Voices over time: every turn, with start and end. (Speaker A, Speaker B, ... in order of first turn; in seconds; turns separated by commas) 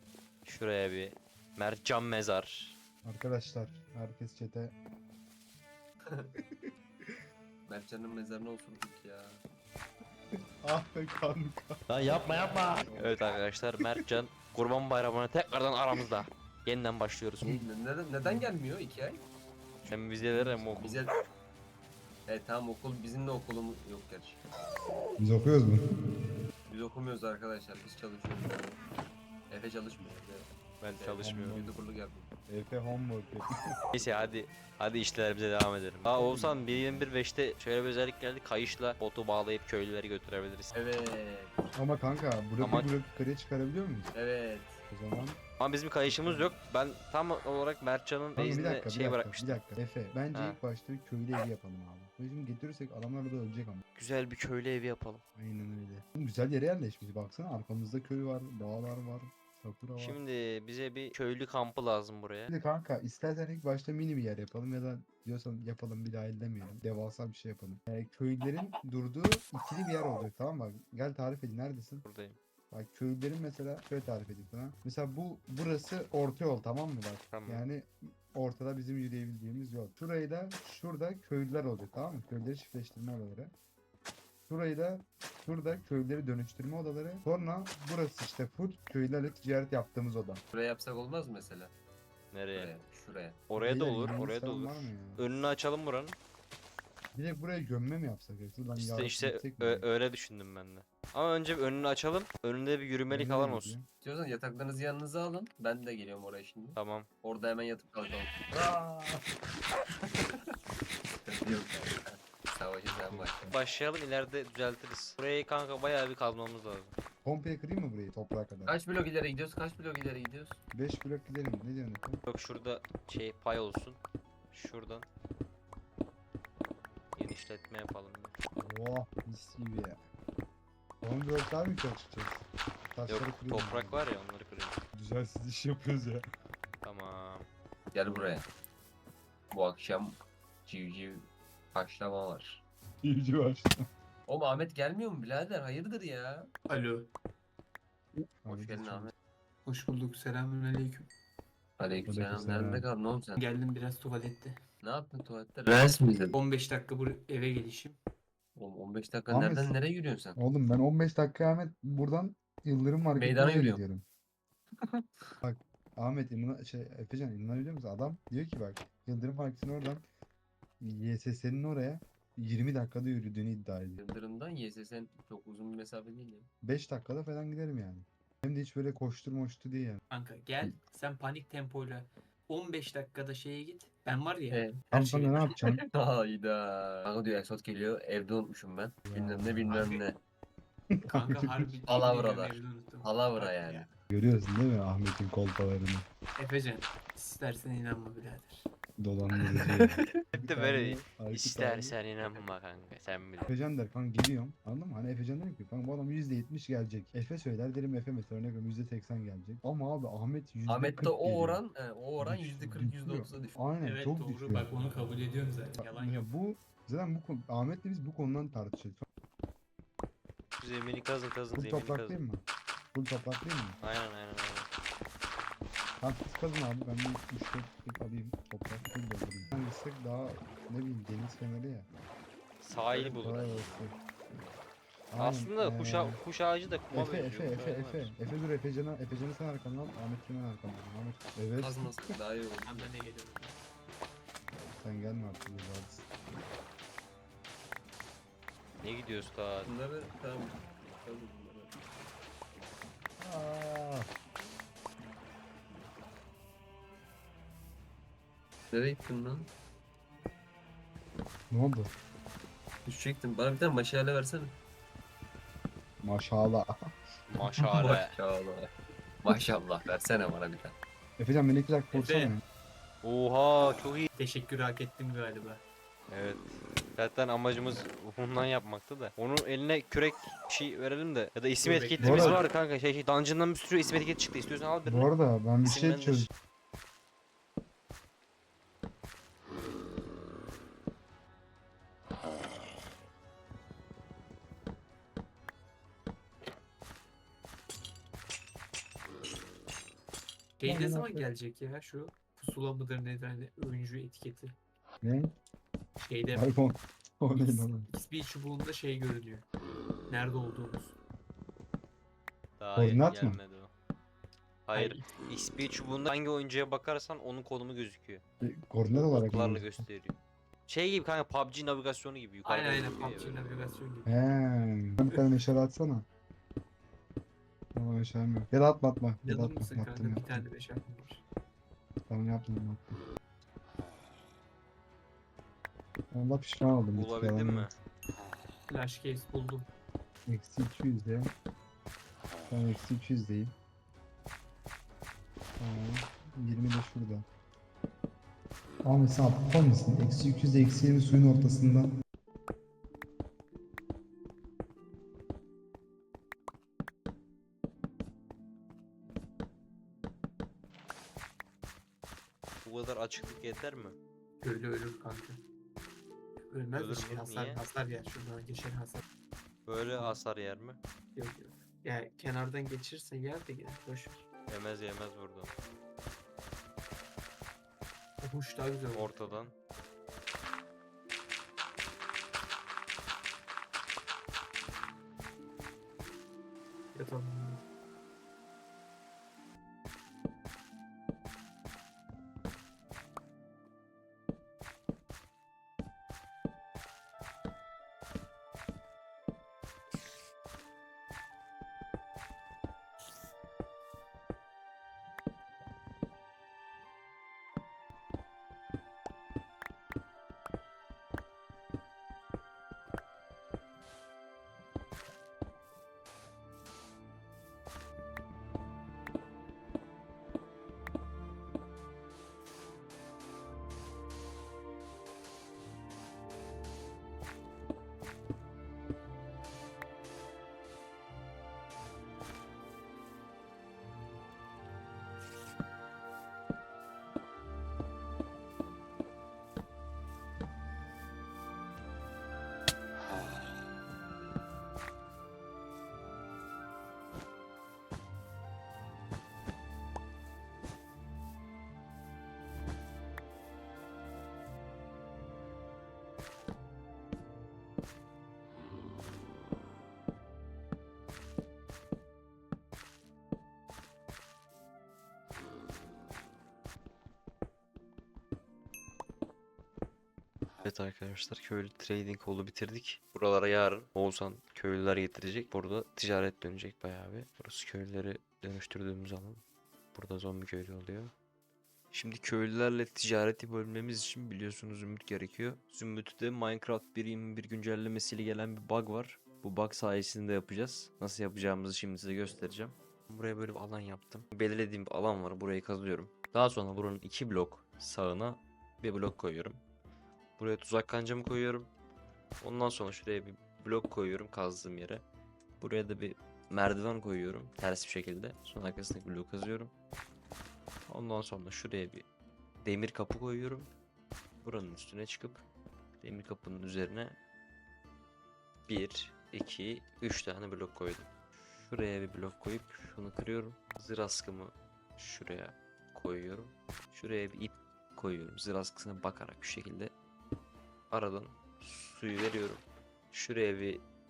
Speaker A: 0.5-2.8, Speaker B: 3.0-4.7, Speaker B: 6.4-7.2, Speaker C: 7.7-9.4, Speaker B: 10.6-11.9, Speaker A: 11.9-17.6, Speaker C: 17.4-19.2, Speaker B: 18.2-18.5, Speaker A: 19.9-21.0, Speaker B: 20.3-20.8, Speaker C: 20.5-21.2, Speaker C: 22.3-24.4, Speaker B: 25.2-25.8, Speaker C: 26.7-28.8, Speaker C: 29.5-32.3, Speaker A: 30.8-31.6, Speaker B: 31.2-31.8, Speaker B: 32.5-33.5, Speaker A: 33.9-40.8, Speaker C: 34.0-34.3, Speaker B: 36.1-37.0, Speaker C: 40.7-41.6, Speaker B: 41.8-44.1, Speaker A: 42.6-42.9, Speaker C: 44.1-44.8, Speaker B: 44.9-45.4, Speaker A: 45.6-49.6, Speaker B: 46.0-46.5, Speaker B: 48.4-53.8, Speaker A: 50.3-50.6, Speaker A: 54.0-55.2, Speaker B: 55.4-60.2, Speaker A: 60.0-62.5, Speaker B: 62.5-72.0, Speaker A: 72.0-72.4, Speaker B: 72.7-83.5, Speaker A: 77.3-77.7, Speaker B: 84.5-90.4, Speaker C: 90.5-91.7, Speaker A: 92.3-92.7, Speaker C: 92.5-93.4, Speaker A: 93.5-96.2, Speaker B: 93.6-95.2, Speaker B: 97.1-99.9, Speaker A: 98.8-103.8, Speaker B: 103.1-103.9, Speaker C: 104.0-108.5, Speaker A: 106.8-107.1, Speaker B: 108.5-109.2, Speaker C: 110.0-110.4, Speaker C: 111.2-113.5, Speaker B: 112.9-113.6, Speaker A: 113.5-116.9, Speaker B: 117.2-118.8, Speaker C: 118.7-120.6, Speaker B: 120.7-122.2, Speaker A: 122.3-124.0, Speaker A: 124.5-125.1, Speaker A: 127.2-128.4, Speaker B: 128.6-130.0, Speaker B: 131.0-134.1, Speaker A: 133.1-134.8, Speaker B: 134.9-136.3, Speaker A: 136.8-137.5, Speaker C: 137.9-138.5, Speaker C: 139.5-142.6, Speaker B: 143.0-143.8, Speaker C: 144.3-146.5, Speaker D: 146.7-147.1, Speaker B: 148.2-149.1, Speaker C: 148.5-149.1, Speaker D: 149.7-151.1, Speaker C: 151.8-153.4, Speaker B: 152.1-152.9, Speaker D: 153.4-154.6, Speaker C: 154.8-156.4, Speaker D: 156.3-158.0, Speaker C: 158.6-160.4, Speaker B: 159.3-159.8, Speaker B: 160.4-164.1, Speaker C: 163.2-163.8, Speaker B: 165.4-170.1, Speaker B: 170.8-174.0, Speaker C: 174.0-176.5, Speaker B: 176.6-180.0, Speaker D: 180.1-185.5, Speaker C: 184.5-184.8, Speaker B: 184.9-185.8, Speaker C: 185.9-190.2, Speaker B: 189.1-189.8, Speaker D: 189.7-190.0, Speaker B: 190.9-191.6, Speaker D: 191.1-193.9, Speaker C: 191.9-193.9, Speaker B: 194.1-196.1, Speaker D: 196.4-198.7, Speaker B: 199.0-202.0, Speaker D: 199.3-199.9, Speaker A: 200.3-203.5, Speaker C: 202.2-202.5, Speaker B: 203.5-211.6, Speaker C: 210.7-213.7, Speaker B: 212.2-214.7, Speaker D: 213.8-216.3, Speaker B: 215.8-219.0, Speaker A: 220.6-222.2, Speaker B: 221.6-223.8, Speaker A: 223.8-224.7, Speaker B: 226.0-231.9, Speaker A: 232.6-233.8, Speaker C: 232.9-233.3, Speaker B: 233.1-234.0, Speaker B: 235.1-236.2, Speaker A: 235.2-238.1, Speaker B: 236.9-241.9, Speaker C: 241.6-242.9, Speaker D: 242.7-243.6, Speaker B: 244.8-246.1, Speaker A: 248.8-249.7, Speaker C: 249.6-251.8, Speaker B: 253.2-254.1, Speaker C: 258.7-259.5, Speaker B: 261.5-261.9, Speaker C: 262.9-264.6, Speaker B: 266.0-266.7, Speaker A: 267.4-268.1, Speaker D: 267.4-268.0, Speaker C: 267.9-268.7, Speaker C: 269.2-270.8, Speaker B: 271.2-272.4, Speaker D: 271.9-272.3, Speaker A: 273.0-274.1, Speaker D: 274.2-275.6, Speaker A: 276.1-285.1, Speaker D: 281.6-282.5, Speaker B: 282.0-282.4, Speaker B: 284.9-286.3, Speaker A: 285.6-286.3, Speaker D: 300.6-304.5, Speaker B: 300.6-301.3, Speaker B: 305.0-305.3, Speaker D: 306.0-306.6, Speaker B: 306.3-307.9, Speaker D: 307.3-309.5, Speaker D: 310.1-311.0, Speaker A: 312.6-313.7, Speaker B: 312.8-313.4, Speaker A: 314.7-318.2, Speaker D: 314.7-315.1, Speaker B: 318.4-319.9, Speaker A: 318.9-320.2, Speaker A: 320.7-323.4, Speaker D: 322.4-324.1, Speaker B: 324.1-326.1, Speaker B: 327.7-330.4, Speaker D: 329.2-331.2, Speaker B: 332.1-332.9, Speaker B: 336.1-337.7, Speaker A: 336.9-337.7, Speaker D: 338.7-339.7, Speaker B: 340.3-341.3, Speaker B: 342.5-343.5, Speaker B: 345.6-347.3, Speaker B: 348.8-351.9, Speaker A: 362.6-364.0, Speaker D: 364.4-365.4, Speaker D: 366.4-369.0, Speaker A: 366.7-367.6, Speaker A: 369.7-370.8, Speaker D: 371.1-374.3, Speaker A: 374.5-375.5, Speaker D: 378.2-379.4, Speaker A: 378.9-379.5, Speaker D: 386.9-387.6, Speaker A: 470.6-479.4, Speaker A: 479.9-481.1, Speaker A: 481.9-499.6, Speaker A: 500.4-501.7, Speaker A: 502.4-505.1, Speaker A: 505.6-509.7, Speaker A: 510.9-512.1, Speaker A: 512.6-513.7, Speaker A: 514.4-515.4, Speaker A: 516.0-517.2, Speaker A: 518.7-529.9, Speaker A: 530.9-533.9